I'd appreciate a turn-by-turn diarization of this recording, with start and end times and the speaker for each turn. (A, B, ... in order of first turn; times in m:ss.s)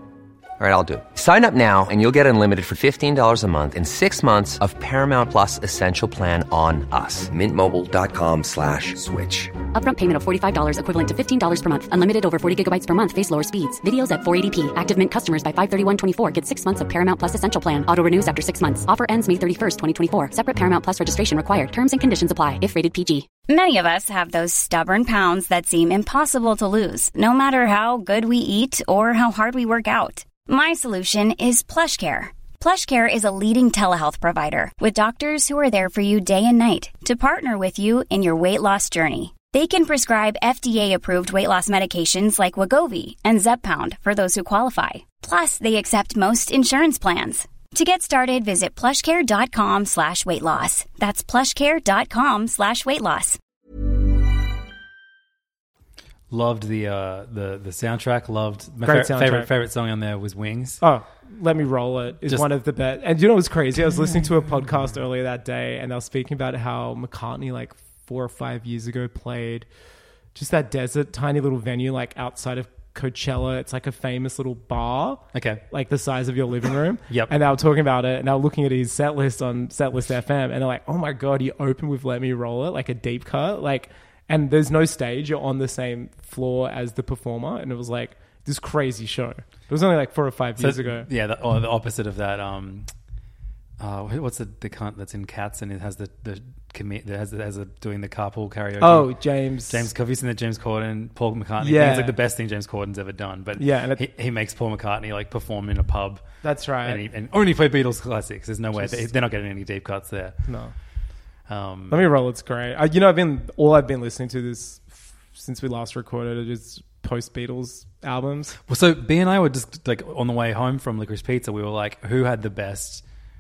0:00.6-0:09.6 A
0:09.7-0:23.3 B
0:23.5-0:53.4 C
0:56.3-1:00.8 D
0:58.8-0:59.5 E
1:00.8-1:09.7 E
1:10.3-1:31.1 E
1:15.3-1:15.6 D
1:30.6-1:32.9 D
1:33.8-1:39.2 D
1:38.8-1:39.9 E
1:39.7-1:46.2 D
1:41.6-1:42.2 E
1:43.6-1:44.0 E
1:46.4-1:47.0 E
1:46.8-1:50.4 D
1:48.7-1:49.0 E
1:50.5-1:50.7 E
1:51.5-1:52.0 D
1:51.9-1:58.6 E
1:58.7-2:03.0 D